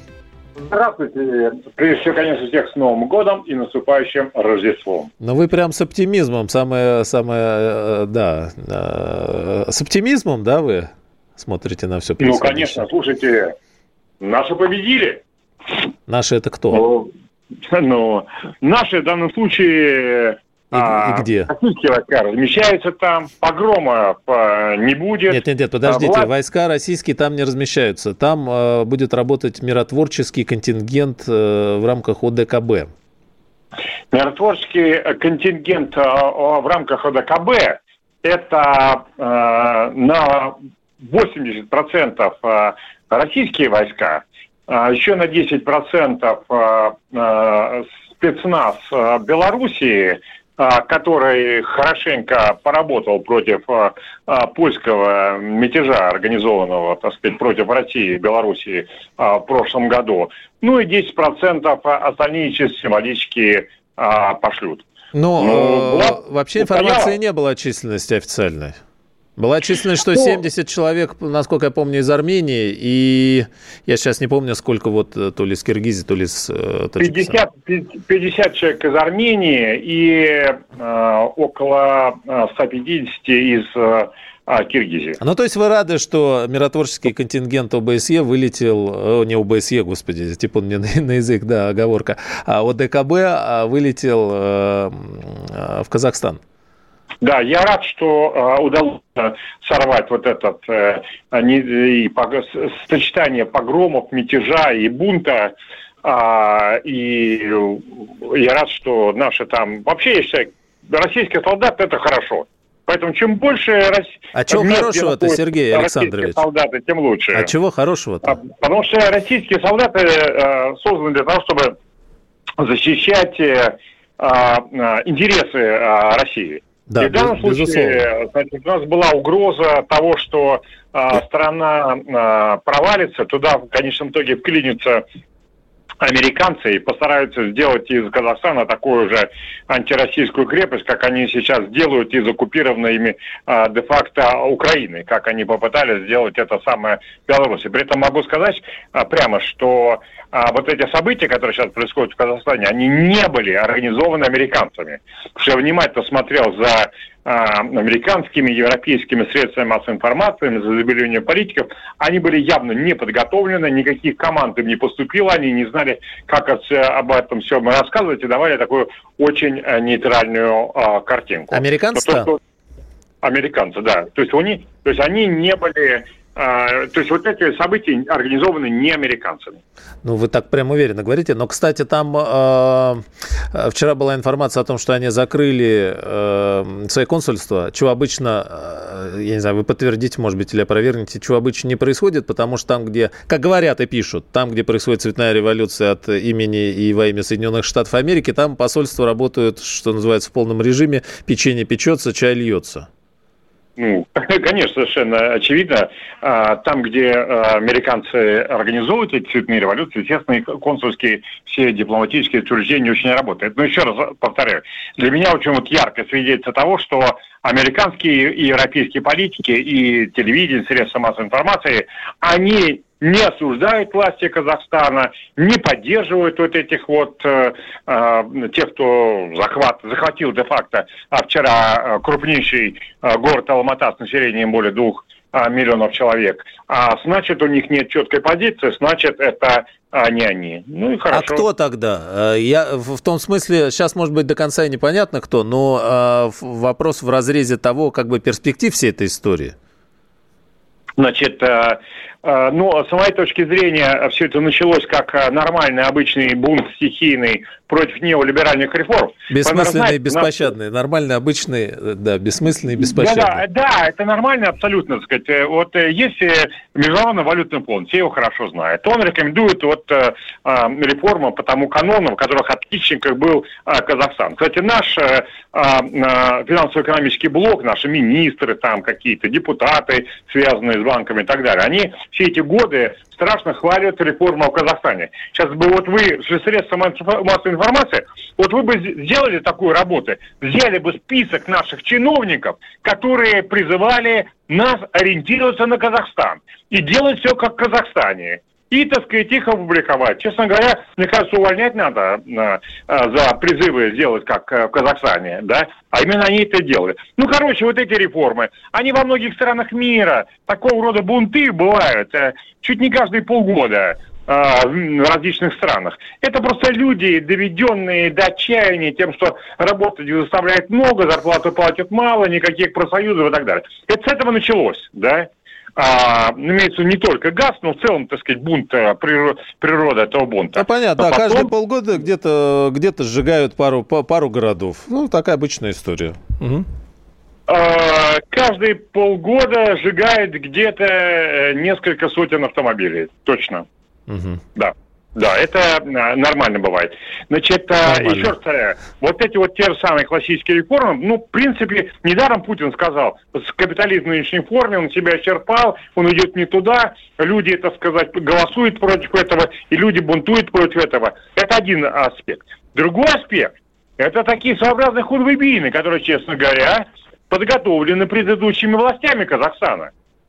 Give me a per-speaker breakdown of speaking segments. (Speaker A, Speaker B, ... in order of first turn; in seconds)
Speaker A: 0.6-5.1, 12.2-13.5, 14.2-15.2, 16.7-17.1, 17.6-26.3, 34.1-64.8, 65.4-67.1, 70.0-70.4, 77.0-85.2, 97.2-105.5, 106.0-117.5, 118.2-121.8, 122.6-135.0, 136.0-172.4, 173.2-179.6, 203.8-241.4, 251.0-260.4, 262.8-331.5, 337.5-343.6, 344.6-369.9
Speaker B: 5.2-12.8, 16.1-16.8, 20.7-21.5, 25.3-32.9, 65.1-68.8, 69.4-77.4, 85.2-96.4, 114.3-116.4, 117.3-118.4, 126.9-128.0, 171.5-172.3, 180.0-202.9, 241.1-249.5, 259.3-263.4, 330.6-336.7, 344.1-344.4, 347.9-348.3